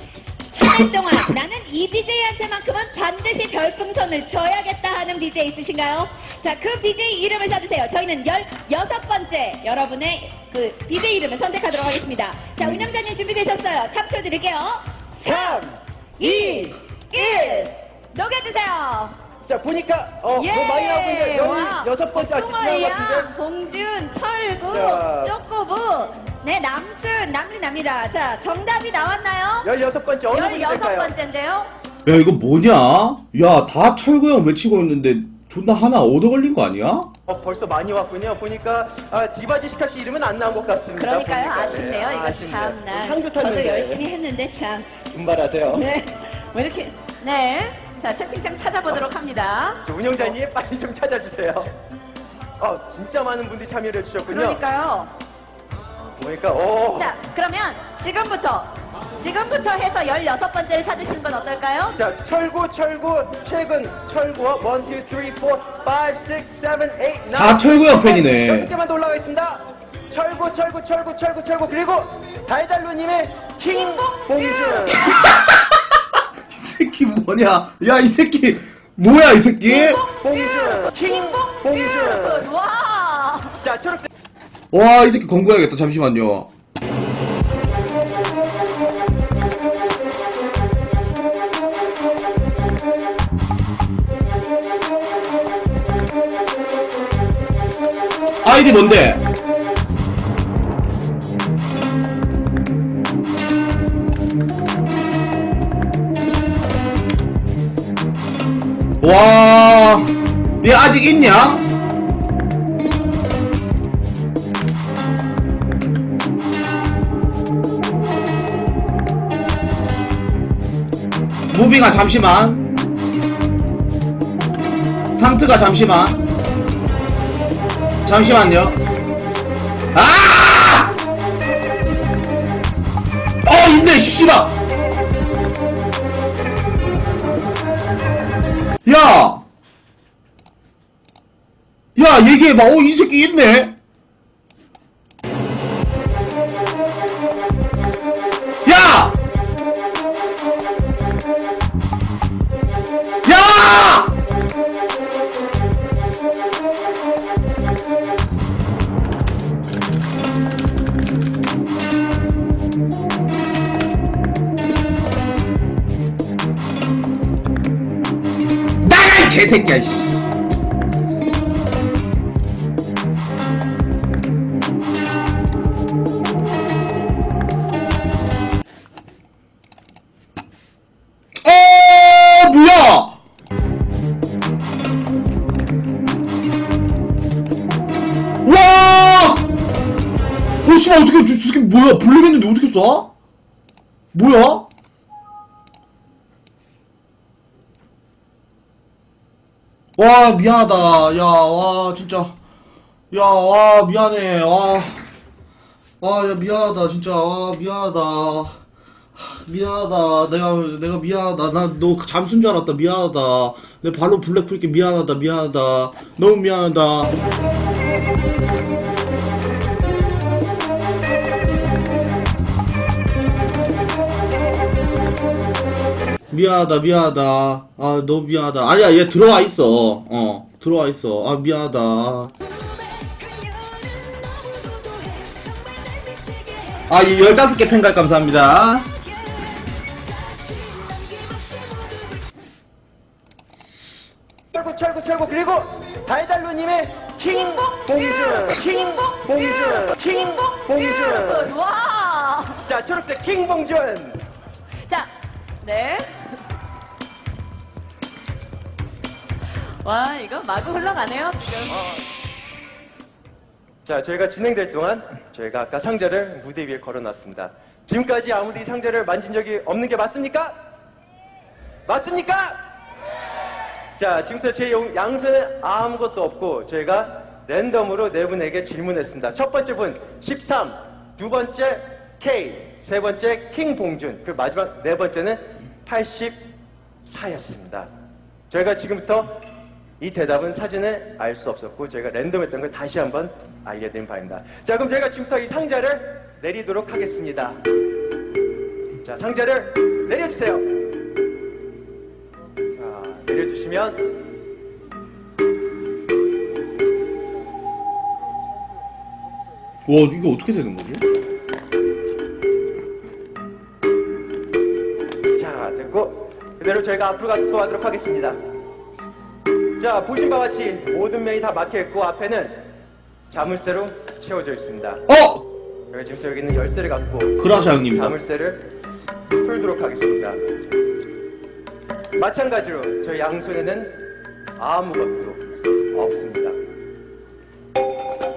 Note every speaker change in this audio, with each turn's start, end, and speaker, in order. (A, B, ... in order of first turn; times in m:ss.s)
0:00.6-0:15.6 A
0:15.2-0:16.8 B
0:16.2-0:19.2 A
0:19.4-0:23.3 B
0:20.4-0:29.7 A
0:24.7-0:25.3 B
0:29.6-0:31.1 B
0:30.3-0:31.7 A
0:32.1-0:37.1 C
0:37.3-0:44.0 B
0:41.0-0:45.0 A
0:45.1-0:45.8 B
0:45.7-0:49.8 A
0:49.8-0:51.7 B
0:52.6-0:54.6 B
0:54.3-0:55.1 A
0:56.2-0:57.1 B
0:57.0-1:02.0 A
1:02.0-1:15.3 B
1:07.4-1:08.7 C
1:15.0-1:16.0 C
1:16.5-1:20.0 C
1:19.7-1:22.5 B
1:20.2-1:23.6 A
1:23.6-1:24.1 B
1:24.7-1:26.5 C
1:38.4-1:39.2 C
1:49.0-1:51.7 C
2:01.5-2:02.7 C
2:05.1-2:06.2 C
2:08.0-2:08.8 C
2:09.9-2:11.0 C
2:13.4-2:14.6 C
2:18.8-2:19.4 C
2:22.0-2:23.8 C
2:28.6-2:29.2 C
2:33.2-2:34.1 C
2:48.8-2:50.3 C
3:01.4-3:03.2 C
3:08.4-3:09.5 C
3:10.6-3:13.1 C
3:14.1-3:14.7 C
3:20.0-3:22.4 C
3:23.1-3:25.1 C
3:26.0-3:28.6 C
3:29.2-3:37.2 C
3:46.3-3:52.3 C
3:53.0-3:53.8 A
3:54.5-3:56.8 A
3:56.9-3:58.9 C
4:00.5-4:01.9 A
4:04.5-4:11.5 B
4:10.4-4:12.7 A
4:12.7-4:14.2 B
4:15.6-4:16.2 A
4:19.8-4:21.8 A
4:21.7-4:22.0 B
4:23.8-4:30.6 B
4:31.9-4:32.6 B
4:34.0-4:46.4 B
4:47.0-4:47.9 B
4:48.5-4:49.4 B
4:50.0-4:57.6 B
4:59.0-5:00.7 B
5:02.8-5:04.1 B
5:09.8-5:11.0 C
5:15.3-5:18.4 B
5:19.8-5:22.7 B
5:23.3-5:25.0 B
5:25.1-5:25.5 C
5:25.9-5:28.7 B
5:27.4-5:28.2 C
5:29.4-5:30.4 B
5:32.2-5:34.0 B
5:34.6-5:35.4 B
5:35.9-5:36.6 B